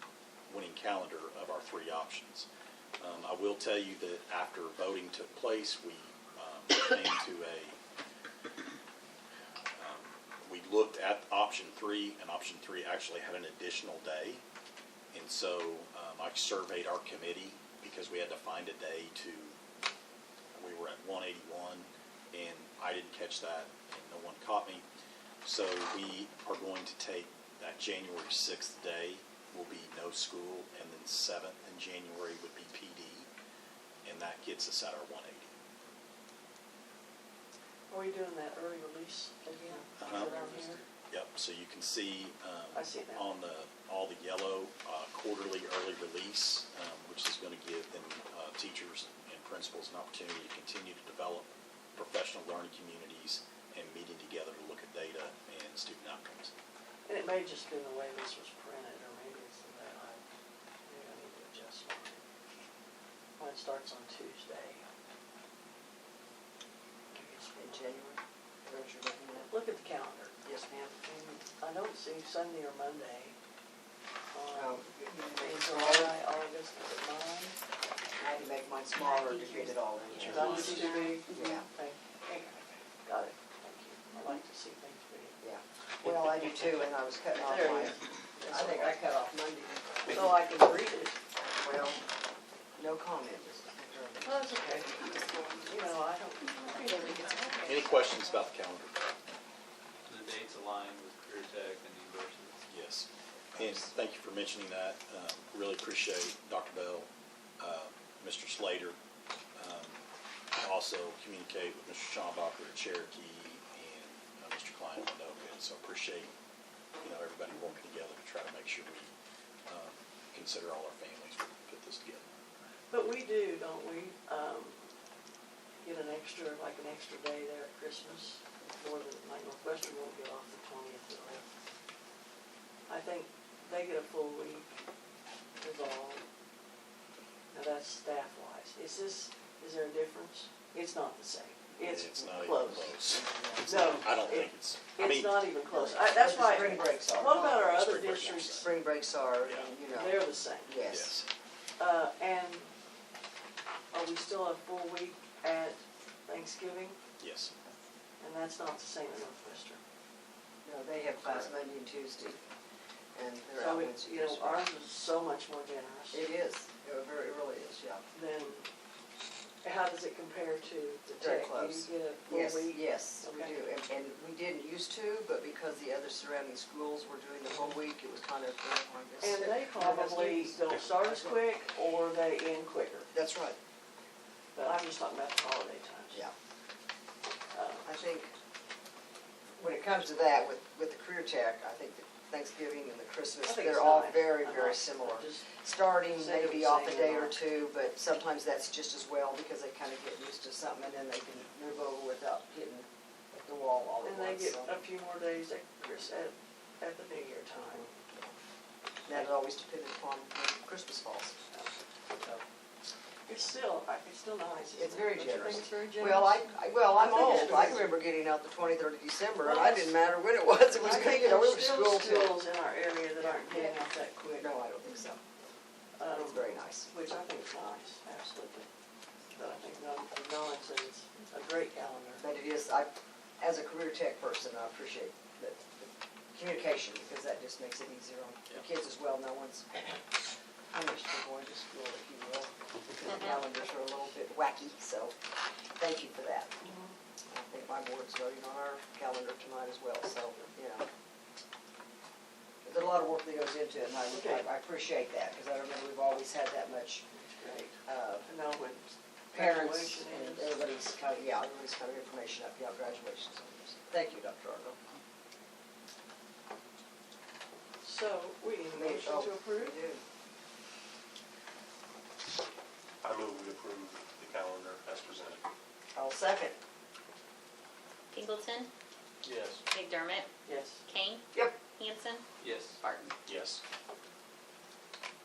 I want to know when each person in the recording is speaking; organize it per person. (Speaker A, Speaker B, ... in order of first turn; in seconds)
Speaker A: 0.5-2.5, 3.0-7.8, 9.8-14.4, 15.1-19.6, 20.6-24.9, 25.4-33.3, 34.0-35.5, 40.0-40.3, 41.1-56.5, 97.6-99.1, 102.7-109.0, 109.5-110.0, 110.5-116.3, 117.0-119.1, 119.7-122.3, 141.8-145.5, 147.6-148.7, 149.4-149.7, 150.9-151.3, 157.2-157.5
Speaker B: 37.9-40.8, 42.7-43.3, 57.1-60.2, 60.9-62.2, 63.4-64.8, 67.1-67.9, 69.5-73.3, 74.3-77.6, 80.2-85.4, 86.0-89.0, 90.1-91.2, 94.2-97.9, 122.9-124.9, 125.8-131.4, 132.9-134.7, 135.6-136.2, 137.5-143.0, 143.7-148.7, 149.9-150.8, 151.8-152.7, 153.9-157.0, 158.2-159.8, 163.6-166.3, 168.1-168.7, 169.6-173.6, 179.2-183.1, 184.6-186.2, 187.5-187.9, 193.4-195.5, 196.1-197.4, 204.0-207.9, 213.3-217.9, 219.4-220.0, 220.7-224.2, 226.0-228.7, 229.3-232.2, 246.6-246.9, 254.1-254.5, 257.1-260.6, 267.8-269.8, 280.5-280.8
Speaker C: 40.1-40.5, 67.6-69.5, 70.5-70.8, 74.5-76.2, 78.2-81.7, 85.4-90.2, 91.4-92.0, 92.8-94.6, 103.6-103.8, 141.8-144.0, 145.7-147.9, 148.6-151.2, 160.6-162.4, 163.2-164.7, 166.1-168.1, 171.2-181.4, 183.1-183.6, 187.8-188.3, 189.6-202.9, 203.4-204.8, 209.1-211.4, 214.8-222.4, 223.2-225.2, 226.1-226.9, 232.2-240.0, 240.7-245.2, 245.8-246.6, 247.3-250.9, 252.6-257.1, 257.9-258.3, 259.3-264.8, 268.7-270.0, 275.9-276.6, 281.3-281.6
Speaker D: 80.3-81.2, 96.7-97.7, 278.1-278.7, 279.7-280.3, 280.9-282.2, 282.8-283.1
Speaker E: 100.1-102.7, 279.3-279.6, 282.4-282.8
Speaker F: 273.0-275.4, 283.3-283.6